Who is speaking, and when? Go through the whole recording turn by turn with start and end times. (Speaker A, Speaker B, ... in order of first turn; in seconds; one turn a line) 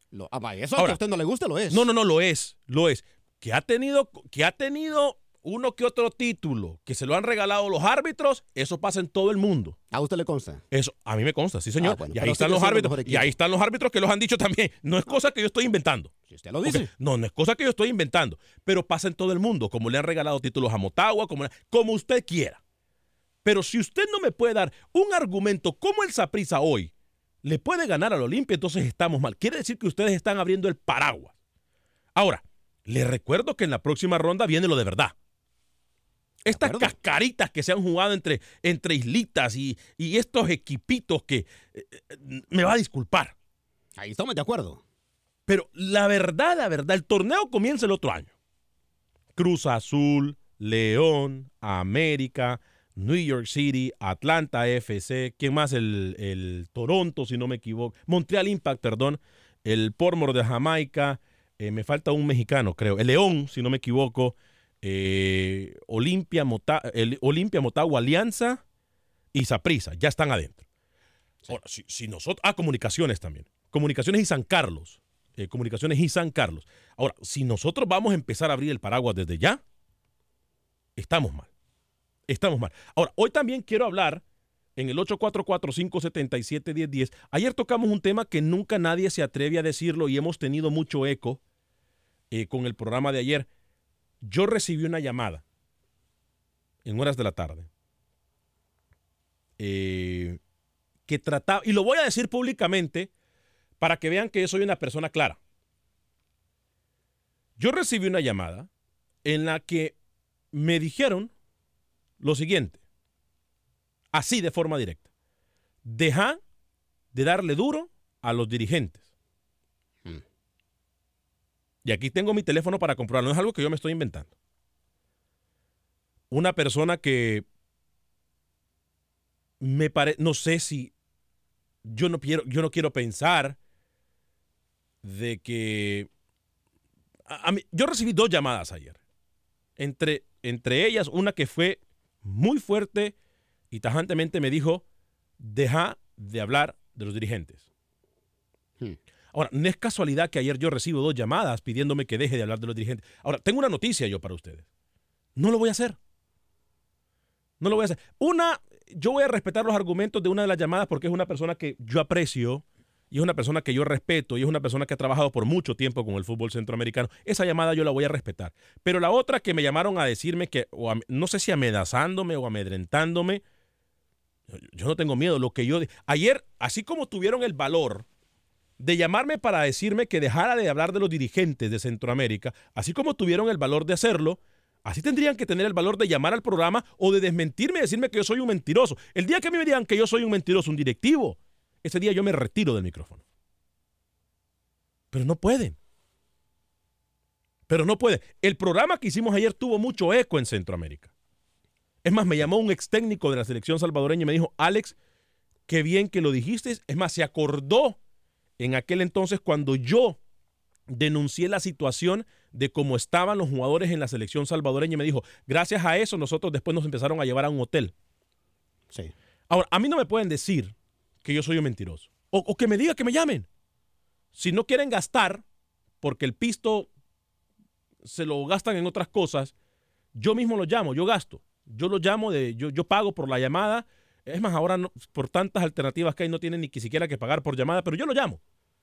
Speaker A: 0.1-1.9
Speaker B: 1.7-9.8
Speaker A: 9.9-10.6
Speaker B: 10.7-16.1
Speaker A: 11.8-13.3
Speaker A: 16.3-16.9
Speaker B: 16.6-22.6
Speaker B: 23.4-26.9
Speaker B: 27.4-31.3
Speaker B: 32.1-35.1
Speaker A: 36.4-37.0
Speaker B: 36.5-43.3
Speaker A: 44.0-44.8
Speaker B: 45.5-48.3
Speaker B: 49.4-68.6
Speaker B: 69.3-70.6
Speaker B: 71.5-79.6
Speaker B: 81.0-81.5
Speaker B: 82.3-84.2
Speaker B: 84.8-91.4
Speaker B: 92.3-93.5
Speaker B: 94.2-95.4
Speaker B: 96.8-97.7
Speaker B: 99.6-100.4
Speaker B: 101.1-103.1
Speaker B: 103.8-105.4
Speaker B: 107.6-108.7
Speaker B: 109.2-110.0
Speaker B: 110.5-111.3
Speaker B: 112.2-112.8
Speaker B: 114.1-115.0
Speaker B: 115.8-116.4
Speaker B: 117.1-119.0
Speaker B: 121.8-124.3
Speaker B: 126.3-127.4
Speaker B: 129.6-130.9
Speaker B: 131.8-133.6
Speaker B: 135.0-136.1
Speaker B: 137.3-139.0
Speaker B: 139.8-143.1
Speaker B: 143.7-144.8
Speaker B: 145.4-147.6
Speaker B: 149.3-154.6
Speaker B: 155.4-156.0
Speaker B: 157.6-173.4
Speaker B: 174.5-178.1
Speaker B: 178.8-193.2
Speaker B: 195.1-195.8
Speaker B: 197.7-201.1
Speaker B: 202.0-204.9
Speaker B: 205.7-208.0
Speaker B: 208.6-210.2
Speaker B: 210.9-217.9
Speaker B: 219.5-223.5
Speaker B: 224.3-225.4
Speaker B: 226.0-226.9
Speaker B: 228.0-229.5
Speaker B: 230.1-238.4